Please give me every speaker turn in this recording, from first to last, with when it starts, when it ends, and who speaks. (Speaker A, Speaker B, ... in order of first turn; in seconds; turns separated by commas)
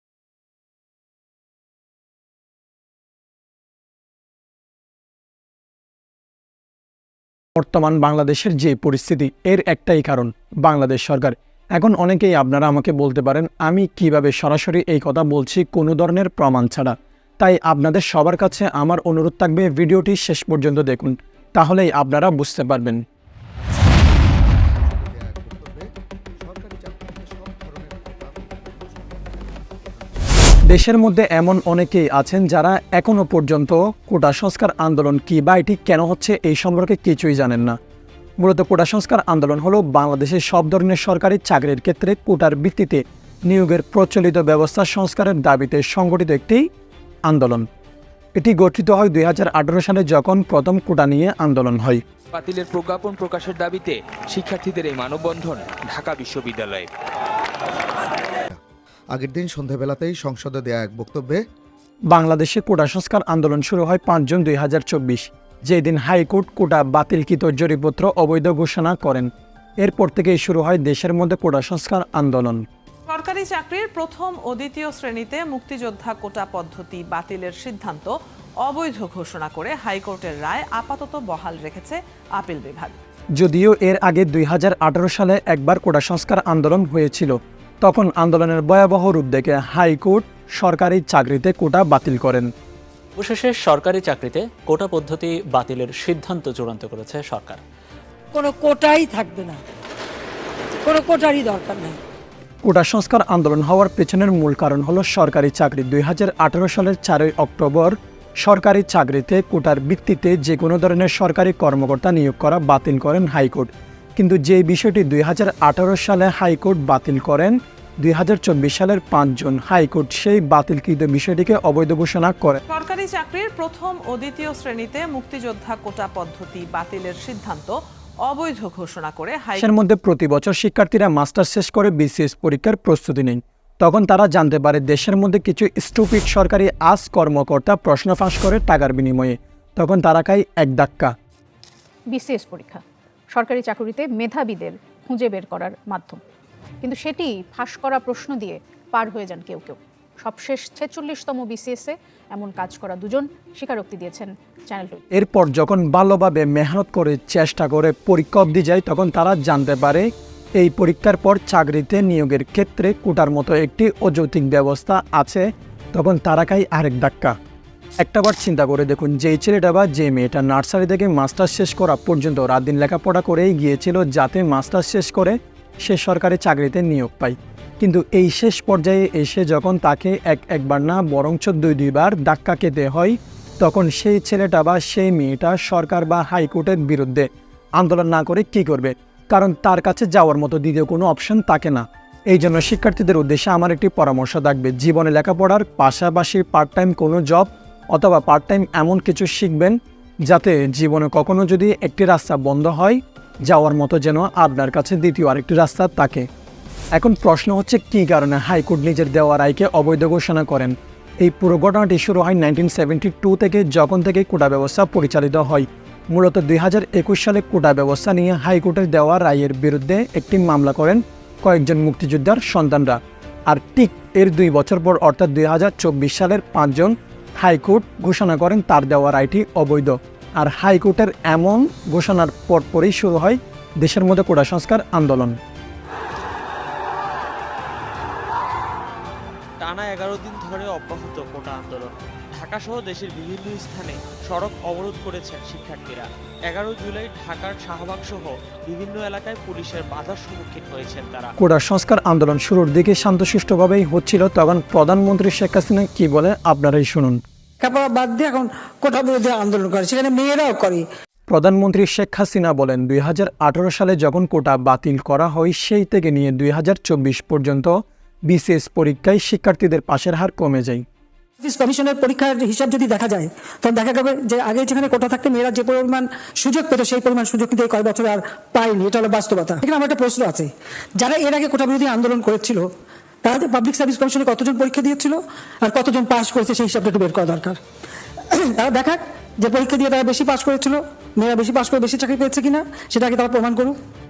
Speaker A: 7.6-23.0, Speaker B: 24.0-30.1, Speaker A: 30.6-37.8, Speaker A: 38.4-46.6, Speaker A: 47.3-47.6, Speaker A: 48.4-52.0, Speaker C: 52.3-56.9, Speaker B: 59.1-61.4, Speaker A: 62.1-69.3, Speaker A: 69.8-72.6, Speaker D: 73.1-83.0, Speaker A: 83.3-92.5, Speaker E: 93.2-97.6, Speaker F: 98.3-99.6, Speaker F: 100.8-102.0, Speaker A: 102.6-122.6, Speaker D: 122.7-129.7, Speaker A: 129.6-141.1, Speaker G: 142.1-142.8, Speaker G: 143.3-146.2, Speaker G: 146.8-155.0, Speaker A: 155.1-167.3, Speaker A: 168.0-187.3, Speaker A: 187.8-206.2, Speaker A: 206.9-235.4, Speaker H: 239.6-251.3, Speaker A: 251.4-257.2, Speaker F: 257.6-260.8, Speaker A: 261.3-270.8, Speaker F: 271.4-280.5, Speaker F: 281.0-282.6, Speaker F: 283.2-287.6, Speaker F: 288.6-293.7